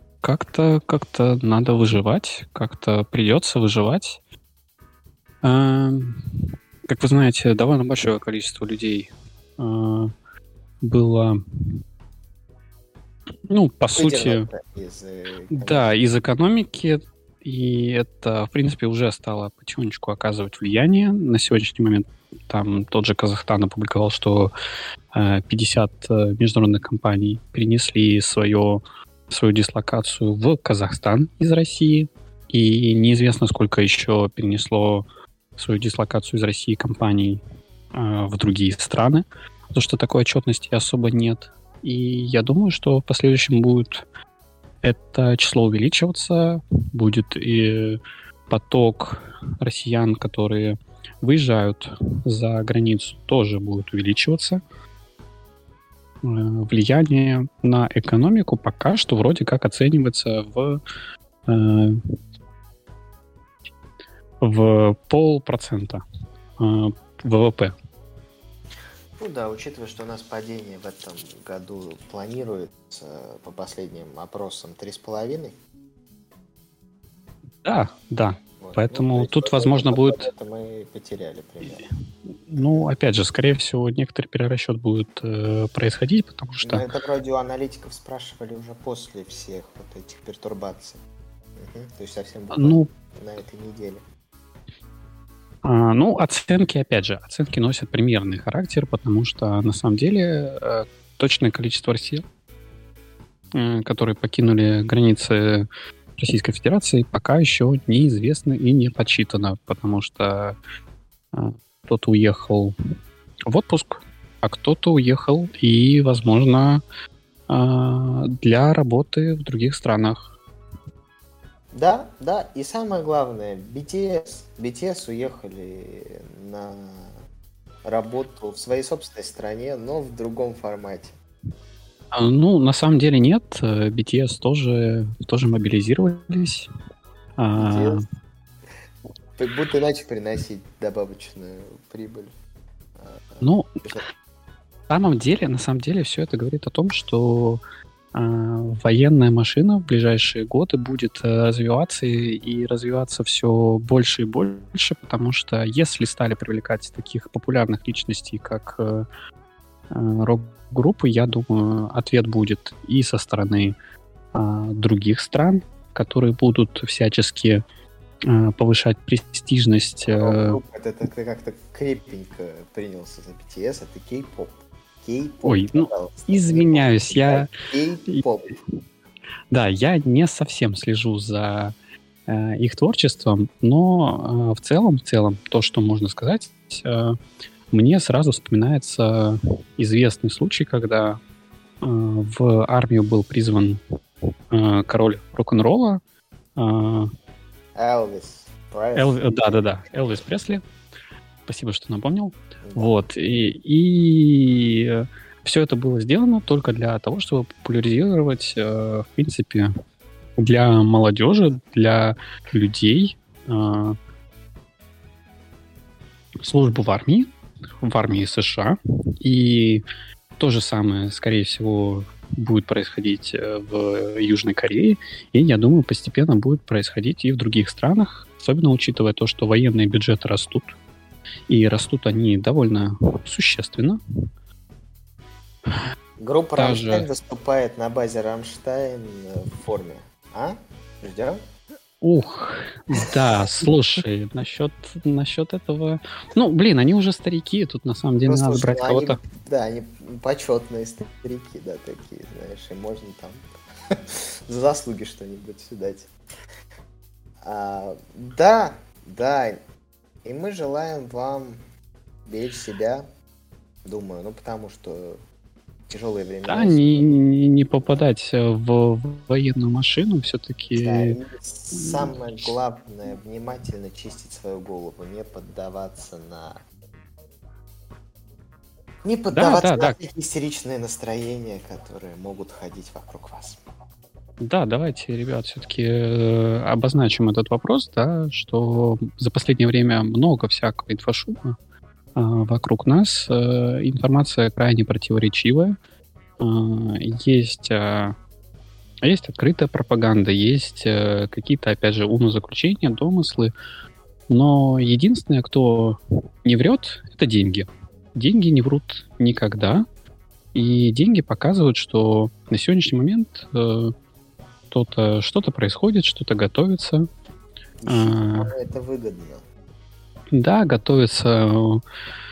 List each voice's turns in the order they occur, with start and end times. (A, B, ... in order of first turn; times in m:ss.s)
0:00.2-0:04.2 A
0:05.4-0:06.2 A
0:06.9-0:10.1 A
0:10.8-0:11.4 A
0:13.5-0:14.5 A
0:13.9-0:15.9 B
0:15.5-0:24.5 A
0:25.1-0:35.0 A
0:35.6-0:37.4 A
0:37.9-0:44.0 A
0:44.8-0:54.6 A
0:56.2-1:00.8 A
1:01.5-1:02.0 A
1:04.4-1:06.0 A
1:06.6-1:07.7 A
1:09.2-1:15.5 B
1:17.6-1:20.3 A
1:18.6-1:21.8 B
1:22.5-1:26.9 A
1:22.6-1:22.9 B
1:26.6-1:31.0 B
1:31.6-1:34.0 B
1:32.5-1:32.9 A
1:35.6-1:42.2 A
1:43.5-1:50.6 A
1:51.3-1:52.7 A
1:53.5-1:56.8 A
1:57.5-2:00.3 A
2:01.7-2:07.2 B
2:07.8-2:11.2 B
2:12.1-2:16.7 A
2:17.4-2:18.0 A
2:17.6-2:18.0 B
2:19.4-2:22.3 B
2:23.0-2:24.0 B
2:23.4-2:23.8 A
2:24.9-2:27.6 A
2:28.1-2:39.0 A
2:39.9-2:43.7 A
2:44.3-2:47.6 A
2:48.2-2:50.6 A
2:50.0-2:58.5 B
2:55.4-2:57.5 A
2:59.5-3:01.7 A
3:02.3-3:07.1 A
3:07.7-3:11.2 A
3:11.8-3:13.8 A
3:14.5-3:16.0 A
3:16.6-3:17.1 A
3:17.7-3:19.7 B
3:18.9-3:20.6 A
3:21.4-3:29.7 A
3:22.6-3:23.0 B
3:30.4-3:34.0 A
3:36.4-3:39.8 A
3:40.4-3:50.7 A
3:51.5-3:54.0 A
3:56.2-4:01.4 B
3:56.6-3:57.1 A
4:02.0-4:09.2 A
4:03.1-4:03.7 B
4:08.2-4:16.1 B
4:17.4-4:19.6 B
4:20.2-4:21.6 B
4:22.2-4:23.1 B
4:23.8-4:25.2 B
4:25.9-4:27.2 B
4:26.5-4:31.2 A
4:30.8-4:36.6 B
4:31.7-4:32.4 A
4:39.0-4:43.6 B
4:39.3-4:40.0 A
4:44.4-4:51.5 A
4:52.2-4:55.8 A
4:56.4-4:58.2 A
4:59.0-5:03.5 A
5:04.3-5:09.8 A
5:10.5-5:13.9 A
5:14.7-5:17.1 A
5:17.8-5:19.4 B
5:17.9-5:18.5 A
5:20.3-5:21.8 A